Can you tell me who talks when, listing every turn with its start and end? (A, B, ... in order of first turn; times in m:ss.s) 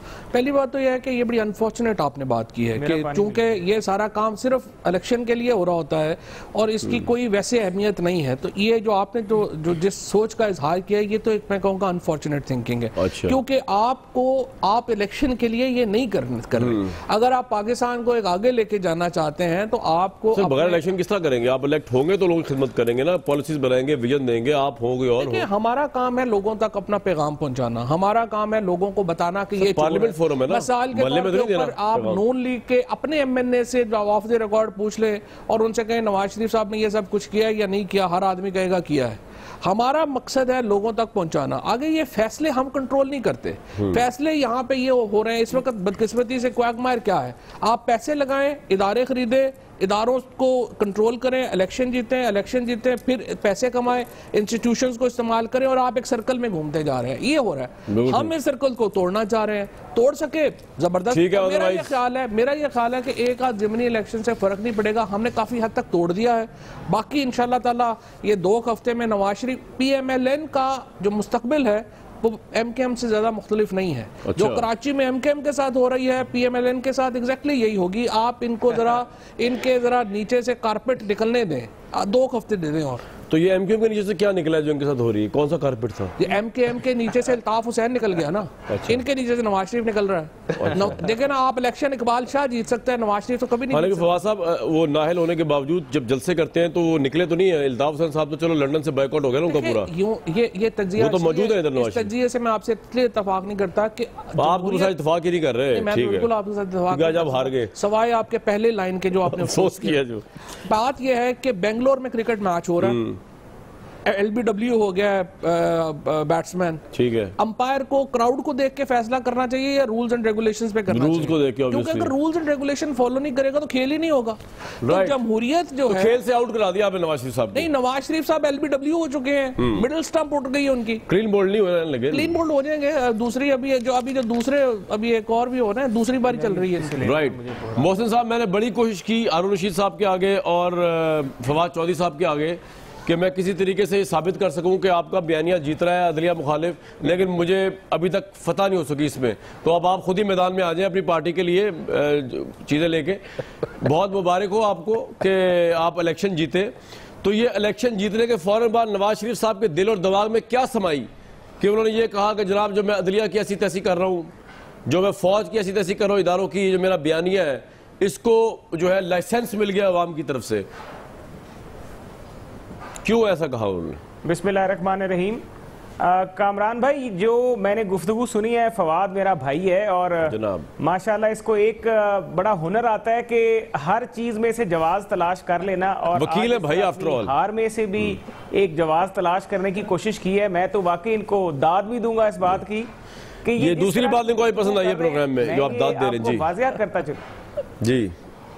0:00.3-0:20.8 A
0:02.8-0:03.4 B
0:13.0-0:13.4 C
0:16.6-0:16.9 C
0:20.3-0:25.5 C
0:25.2-1:23.0 A
0:29.6-0:32.2 C
0:57.9-0:58.3 C
1:01.1-1:01.9 C
1:14.2-1:14.6 C
1:23.3-1:26.2 C
1:26.2-1:34.1 A
1:28.7-1:29.0 C
1:30.5-1:31.0 C
1:33.7-1:39.9 C
1:39.5-1:44.9 A
1:41.0-1:42.1 C
1:44.4-1:46.3 C
1:45.7-1:50.0 A
1:46.9-1:47.7 C
1:49.3-1:50.2 C
1:50.6-1:53.0 A
1:52.8-1:53.2 C
1:54.0-1:56.8 A
1:56.9-1:57.3 C
1:57.4-2:06.2 A
2:00.9-2:02.1 C
2:04.8-2:05.2 C
2:05.9-2:07.7 C
2:07.5-2:11.0 A
2:09.6-2:09.8 C
2:11.1-2:12.3 C
2:12.1-2:17.1 A
2:17.0-2:33.2 C
2:33.8-2:41.1 C
2:41.6-2:44.3 C
2:44.9-2:50.6 C
2:53.0-2:54.0 C
2:54.2-2:55.4 B
2:56.0-3:12.9 B
3:00.2-3:00.7 C
3:06.1-3:07.3 C
3:13.4-3:17.2 B
3:13.6-3:16.5 C
3:17.8-3:18.1 C